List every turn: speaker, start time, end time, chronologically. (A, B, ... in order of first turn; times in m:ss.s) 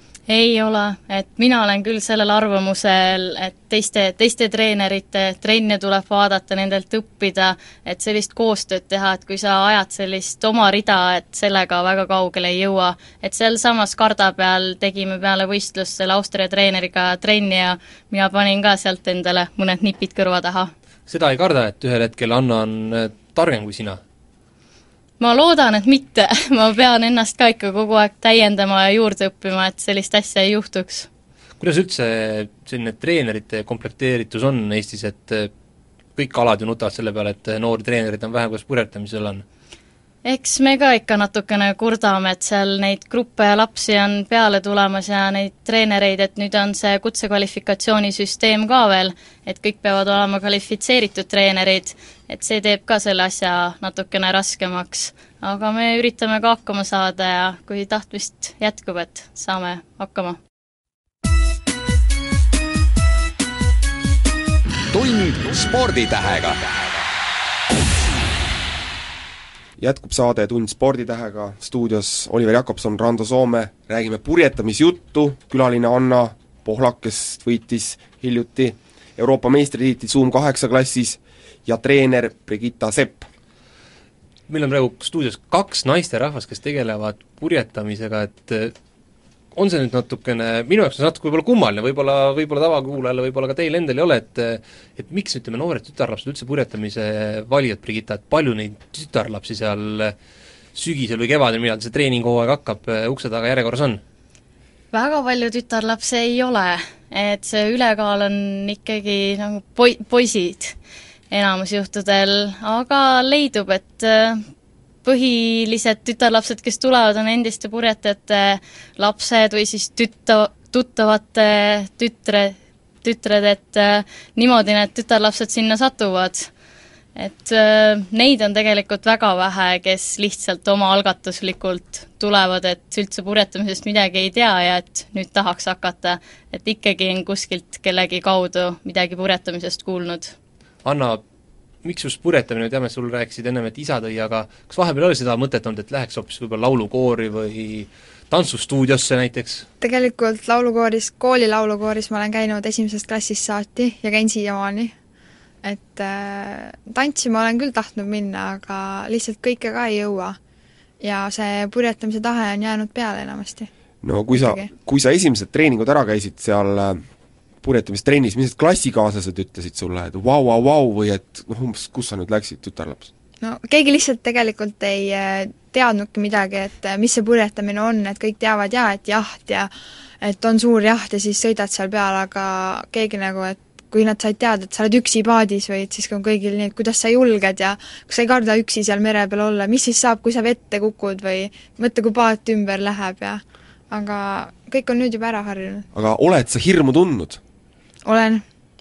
0:00.3-0:20.7 A
0:21.1-0:24.0 B
0:25.2-0:31.1 A
0:31.6-0:35.5 B
0:36.2-0:39.4 B
0:40.2-1:00.4 A
1:04.9-1:07.0 C
1:09.8-1:23.3 D
1:24.5-1:28.7 B
1:29.5-1:40.1 B
1:40.7-1:44.0 B
1:44.9-1:50.8 A
1:51.3-1:54.4 A
1:55.0-2:06.5 A
2:07.2-2:20.3 A
2:20.8-2:21.2 B
2:21.8-2:29.6 B
2:29.8-2:34.9 E
2:35.6-2:40.4 E
2:41.0-2:43.7 E
2:44.0-2:47.0 D
2:44.3-2:44.7 E
2:47.6-2:53.1 D
2:53.4-2:59.7 E
3:00.2-3:15.9 E
3:15.9-3:17.4 D
3:18.0-3:18.4 E